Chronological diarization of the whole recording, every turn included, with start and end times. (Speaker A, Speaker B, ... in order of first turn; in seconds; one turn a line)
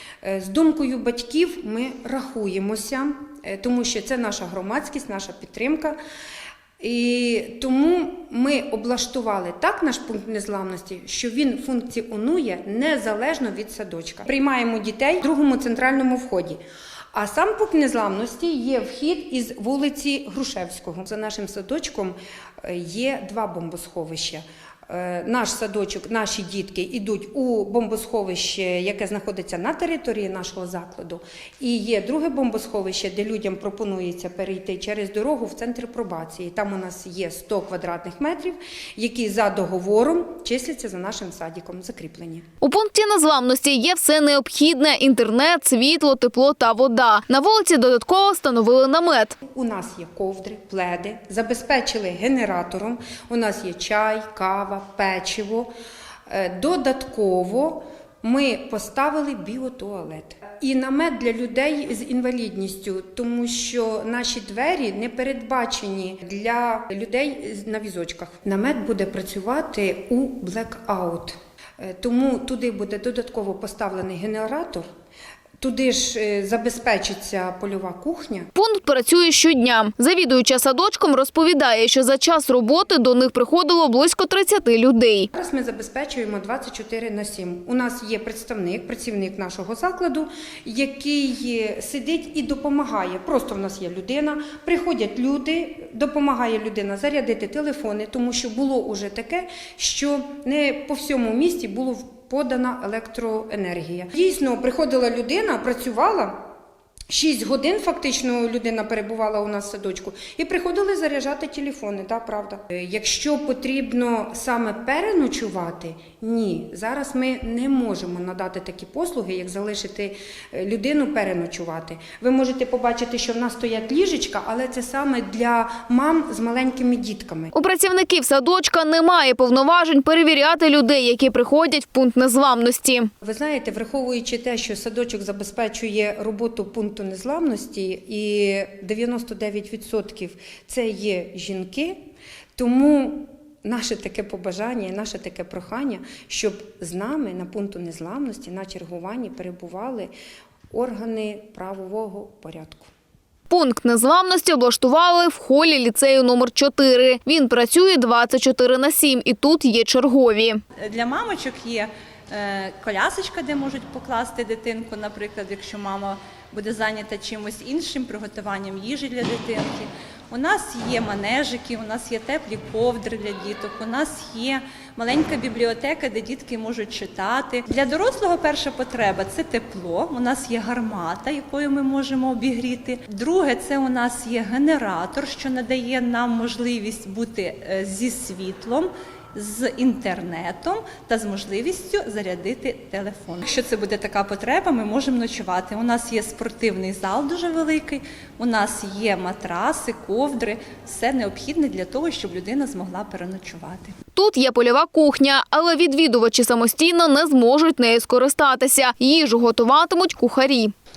Speaker A: 0.2-6.0
Speaker A: 6.8-16.6
Speaker A: 17.1-42.4
Speaker B: 42.6-49.4
Speaker A: 49.5-55.7
Speaker A: 56.3-74.8
Speaker A: 75.6-78.5
Speaker B: 78.5-85.3
Speaker A: 85.3-106.4
Speaker A: 107.1-127.5
Speaker B: 127.5-133.1
Speaker A: 133.2-142.0
Speaker A: 142.6-150.1
Speaker A: 150.7-152.9
Speaker B: 153.5-160.6
Speaker C: 160.8-203.9
Speaker B: 204.2-210.7